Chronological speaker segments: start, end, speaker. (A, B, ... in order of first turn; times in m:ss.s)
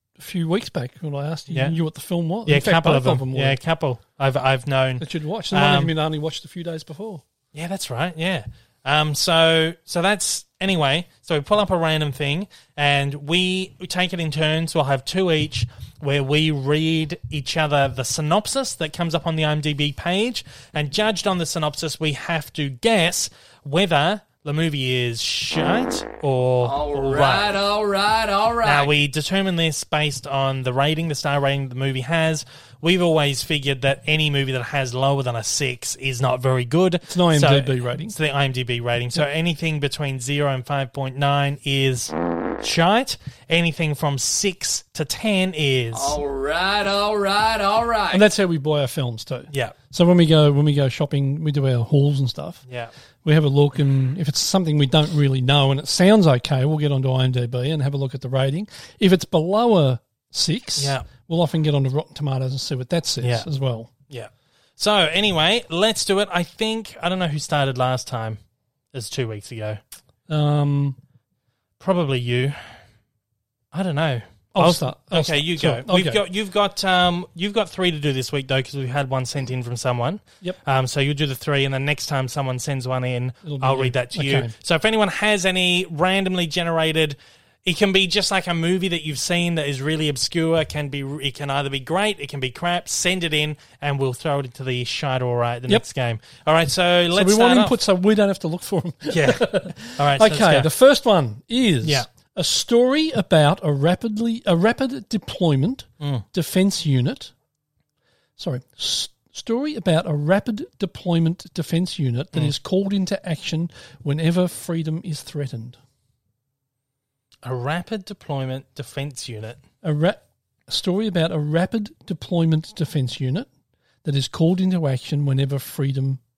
0:00.2-0:03.6 A
0:01.5-0:01.7 B
0:02.4-0:05.9 B
0:05.0-0:07.2 A
0:07.5-0:27.6 B
0:26.6-0:28.9 C
0:28.6-0:46.2 B
0:37.1-0:38.1 A
0:45.9-0:48.2 C
0:48.1-0:52.6 A
0:49.5-0:49.8 B
0:52.6-0:52.9 B
0:53.2-1:03.9 A
1:00.8-1:01.0 B
1:03.2-1:03.5 B
1:04.1-1:08.4 B
1:08.9-1:09.8 B
1:10.3-1:11.0 A
1:11.8-1:12.8 B
1:13.7-1:37.8 B
1:14.5-1:16.2 A
1:23.4-1:24.5 A
1:37.1-1:47.3 A
1:39.1-1:40.7 B
1:41.8-1:42.1 B
1:46.0-1:46.2 B
1:48.4-1:55.8 A
1:57.4-1:59.6 B
1:59.8-2:03.5 A
2:04.0-2:06.2 A